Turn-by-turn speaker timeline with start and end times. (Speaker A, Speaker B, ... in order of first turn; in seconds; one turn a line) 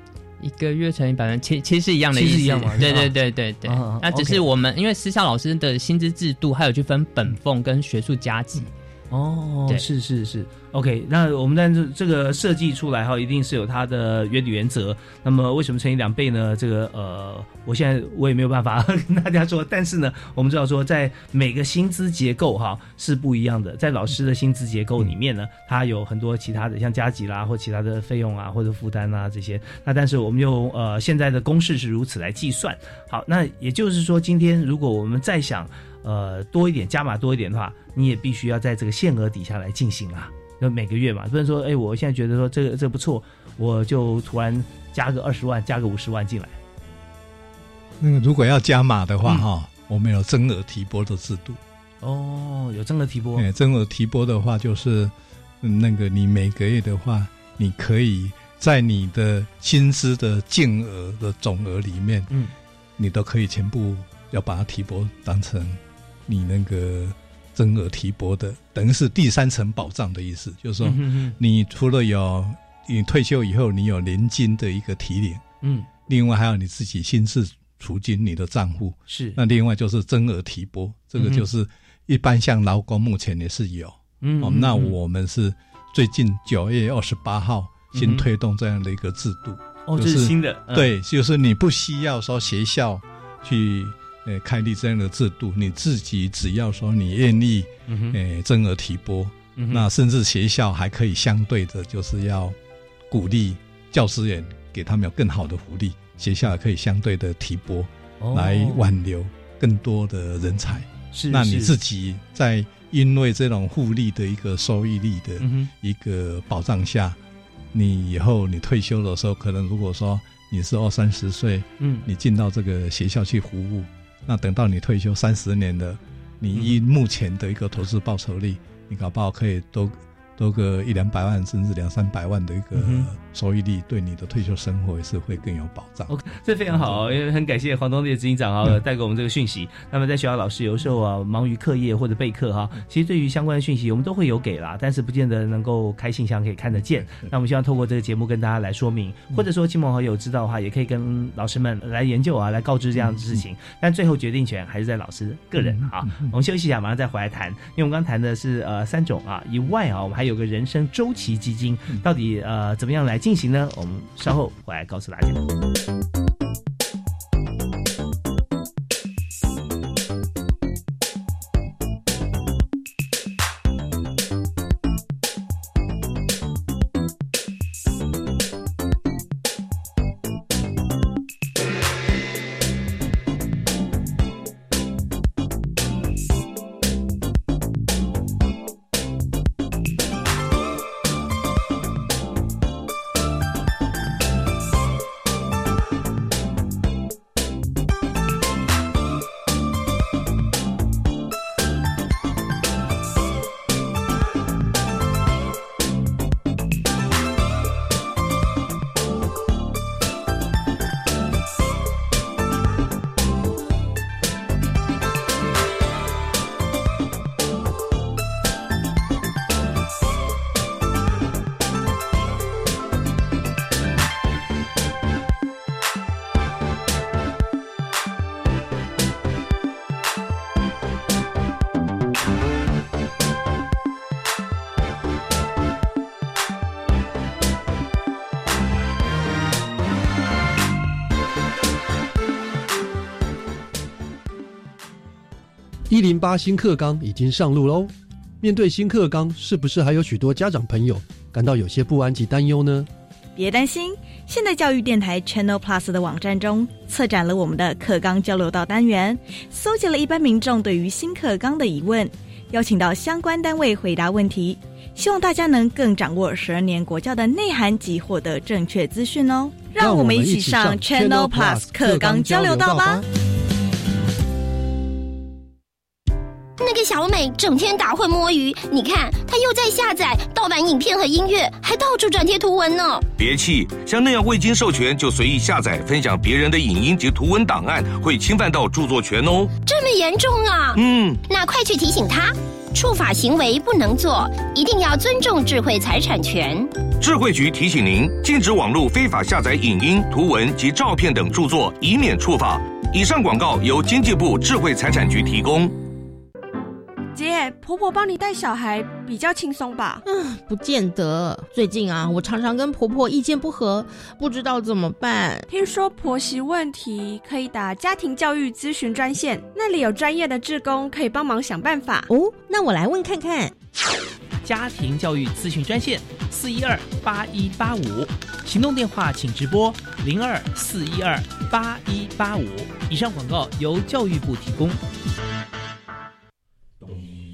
Speaker A: 0.4-8.7
Speaker B: 2.1-4.4
Speaker B: 9.1-46.6
Speaker C: 48.0-51.6
Speaker B: 52.0-53.5
Speaker C: 53.4-62.3
Speaker C: 63.0-75.4
Speaker B: 70.8-71.3
Speaker B: 75.6-75.9
Speaker C: 76.1-102.5
Speaker B: 79.1-79.4
Speaker B: 81.2-81.4
Speaker B: 84.2-84.9
Speaker B: 87.9-88.2
Speaker B: 89.9-90.9
Speaker B: 97.9-98.2
Speaker B: 99.6-99.8
Speaker C: 103.1-117.2
Speaker B: 108.2-108.9
Speaker B: 111.1-111.7
Speaker B: 115.4-115.7
Speaker C: 117.7-136.1
Speaker B: 121.8-122.0
Speaker B: 132.7-133.1
Speaker B: 136.1-165.4
Speaker C: 136.7-137.0
Speaker C: 153.0-153.4
Speaker C: 155.6-156.3
Speaker D: 245.9-252.9
Speaker E: 253.3-273.0
Speaker D: 269.8-273.0
Speaker F: 276.6-283.0
Speaker G: 283.2-289.5
Speaker F: 289.6-296.7
Speaker G: 290.7-291.2
Speaker G: 297.0-305.7
Speaker H: 307.1-310.0
Speaker I: 310.0-315.4
Speaker H: 315.5-322.1
Speaker I: 322.1-323.5
Speaker B: 324.4-334.8